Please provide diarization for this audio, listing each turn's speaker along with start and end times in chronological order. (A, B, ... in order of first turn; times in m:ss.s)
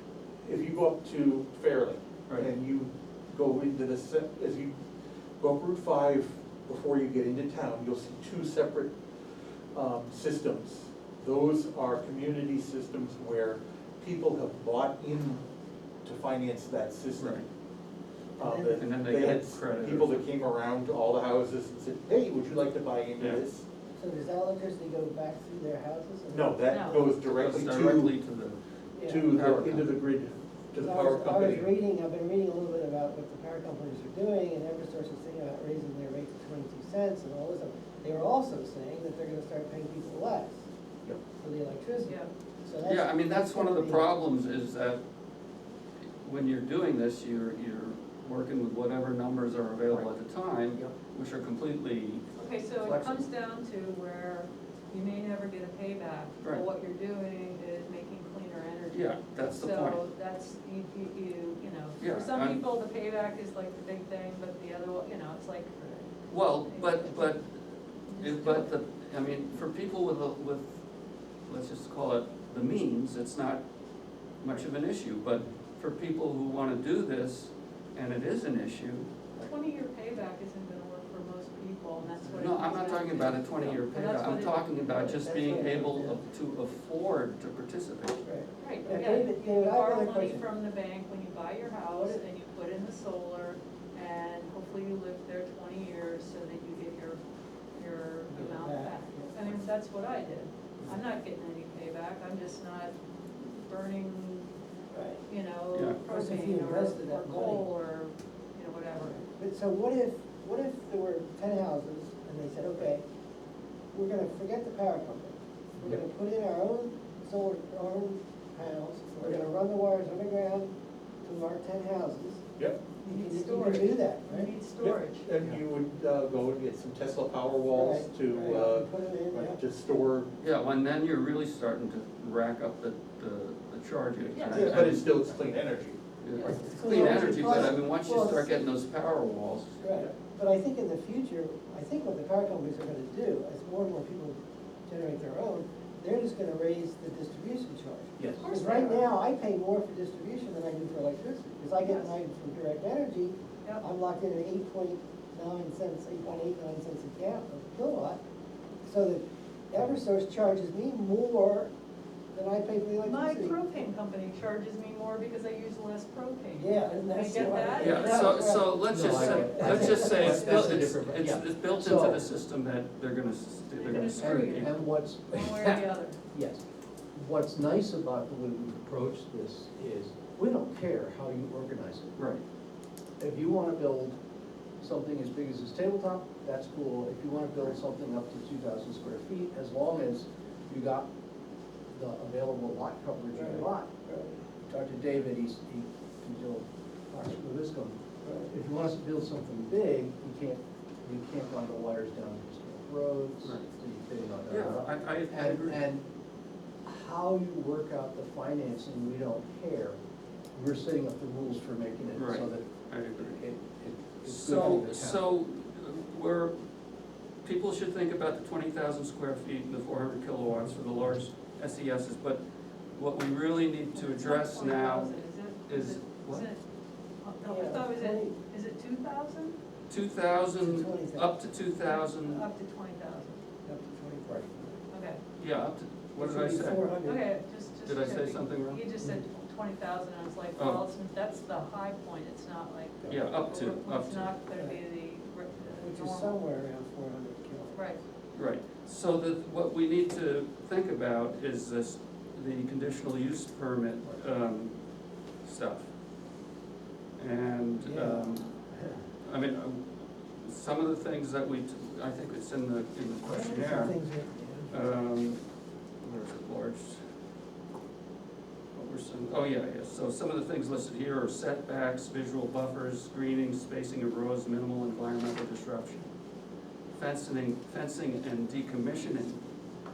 0:00.4-0:04.7 A
0:05.4-0:08.9 A
0:09.7-0:15.4 A
0:16.0-0:17.5 A
0:17.2-0:17.4 B
0:18.4-0:23.6 A
0:18.4-0:18.8 C
0:18.8-0:20.3 B
0:24.0-0:27.1 C
0:26.3-0:28.1 A
0:26.7-0:27.1 D
0:27.2-0:28.6 B
0:28.9-0:29.3 C
0:29.1-0:31.7 A
0:29.2-0:29.9 B
0:30.8-0:40.6 C
0:41.4-0:44.1 C
0:42.0-0:42.3 D
0:42.8-0:45.0 B
0:46.2-0:52.2 B
0:52.4-1:05.8 D
0:52.8-0:53.2 B
0:58.9-1:00.0 B
1:02.0-1:02.6 B
1:05.8-1:06.1 C
1:06.3-1:10.8 B
1:06.7-1:07.4 D
1:08.1-1:08.7 D
1:11.5-1:13.6 B
1:14.4-1:19.1 B
1:19.4-1:25.5 D
1:22.4-1:28.2 B
1:24.9-1:26.2 C
1:28.2-1:30.5 C
1:28.6-1:37.2 D
1:31.9-1:32.2 C
1:37.8-1:44.5 D
1:38.3-1:39.6 C
1:44.9-1:45.2 C
1:45.3-1:49.2 D
1:45.7-1:46.0 B
1:46.1-1:47.7 C
1:49.0-1:53.0 C
1:53.9-2:00.7 C
2:01.2-2:02.4 C
2:03.0-2:04.5 C
2:03.0-2:05.3 D
2:04.8-2:10.3 A
2:07.7-2:09.6 C
2:10.4-2:15.5 B
2:14.3-2:14.7 D
2:14.5-2:17.4 A
2:16.2-2:19.8 B
2:16.6-2:18.7 C
2:19.8-2:38.2 C
2:28.2-2:28.4 E
2:28.4-2:29.1 D
2:31.8-2:32.1 D
2:38.8-2:41.7 C
2:42.3-2:43.6 C
2:43.0-2:48.4 D
2:46.6-2:50.8 C
2:47.8-2:54.8 B
2:48.5-2:52.3 E
2:49.1-2:50.4 D
2:53.8-2:56.2 D
2:54.2-2:56.6 E
2:57.1-3:02.1 E
3:02.2-3:02.4 B
3:03.2-3:04.2 E
3:04.8-3:11.1 E
3:11.9-3:14.0 E
3:13.3-3:14.4 C
3:14.7-3:26.1 E
3:18.2-3:18.5 C
3:23.4-3:23.7 B
3:24.5-3:25.8 B
3:26.8-3:30.0 E
3:30.5-3:35.2 E
3:32.2-3:33.4 B
3:34.2-3:36.6 B
3:37.4-3:42.4 B
3:43.0-3:45.2 B
3:43.9-3:46.6 D
3:45.7-3:46.5 B
3:47.2-3:49.6 D
3:47.5-3:48.4 C
3:49.9-3:52.4 B
3:50.6-3:51.3 C
3:51.8-3:53.4 D
3:53.6-3:54.8 C
3:54.9-3:55.2 D
3:55.4-3:56.9 B
3:56.2-3:57.2 C
3:57.0-4:06.4 D
3:57.8-3:58.8 B
4:00.6-4:00.8 B
4:03.1-4:04.4 B
4:05.8-4:07.9 C
4:07.7-4:08.0 D
4:08.3-4:14.8 B
4:15.4-4:15.9 B
4:17.2-4:18.6 B
4:17.8-4:19.1 C
4:19.2-4:24.0 B
4:23.3-4:24.7 C
4:24.7-4:25.4 B
4:26.0-4:27.0 B
4:28.8-4:36.1 B
4:36.9-4:39.4 B